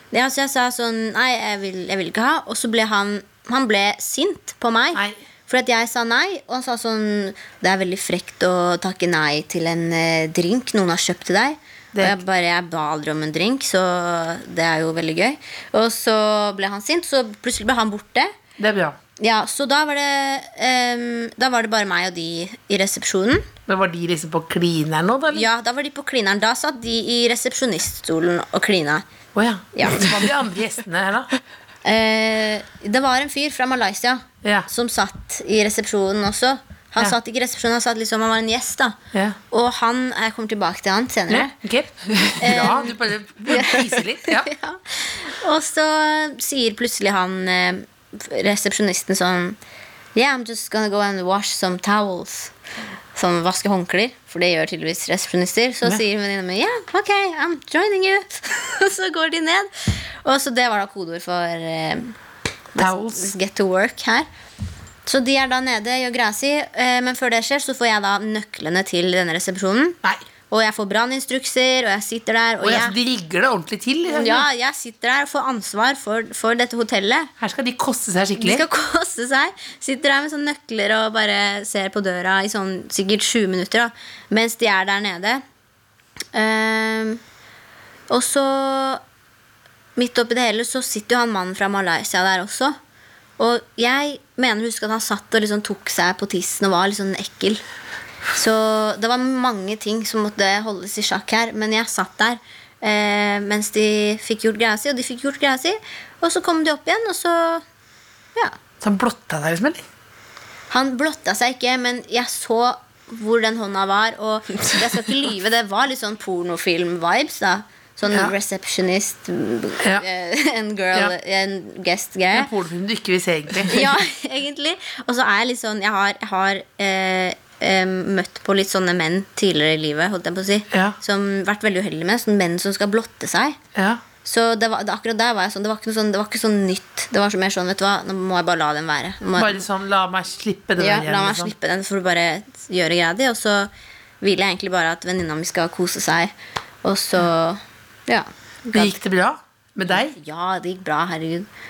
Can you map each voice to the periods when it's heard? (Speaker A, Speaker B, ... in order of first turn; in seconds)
Speaker A: 0.1-18.3, 19.2-23.5, 25.3-29.0, 29.7-30.2, 31.8-39.0, 39.5-41.5, 42.4-49.6, 50.1-52.5, 53.1-62.1, 62.7-64.3, 65.0-70.0, 70.5-73.0, 74.1-77.3, 78.4-85.4, 86.3-87.2, 88.1-89.0, 90.0-92.8, 93.4-97.6, 98.3-107.6, 110.7-122.5, 123.7-133.6, 134.2-139.6, 140.8-143.7, 144.2-146.3, 146.8-149.0, 149.9-151.5
Speaker B: 11.9-12.2, 18.6-19.0, 23.7-25.5, 29.3-31.3, 34.4-34.7, 39.1-39.4, 41.3-44.5, 62.8-63.3, 72.6-74.5, 77.4-78.6, 108.8-109.8, 122.3-124.0, 130.7-131.0, 133.7-134.0, 139.3-141.5, 148.7-150.2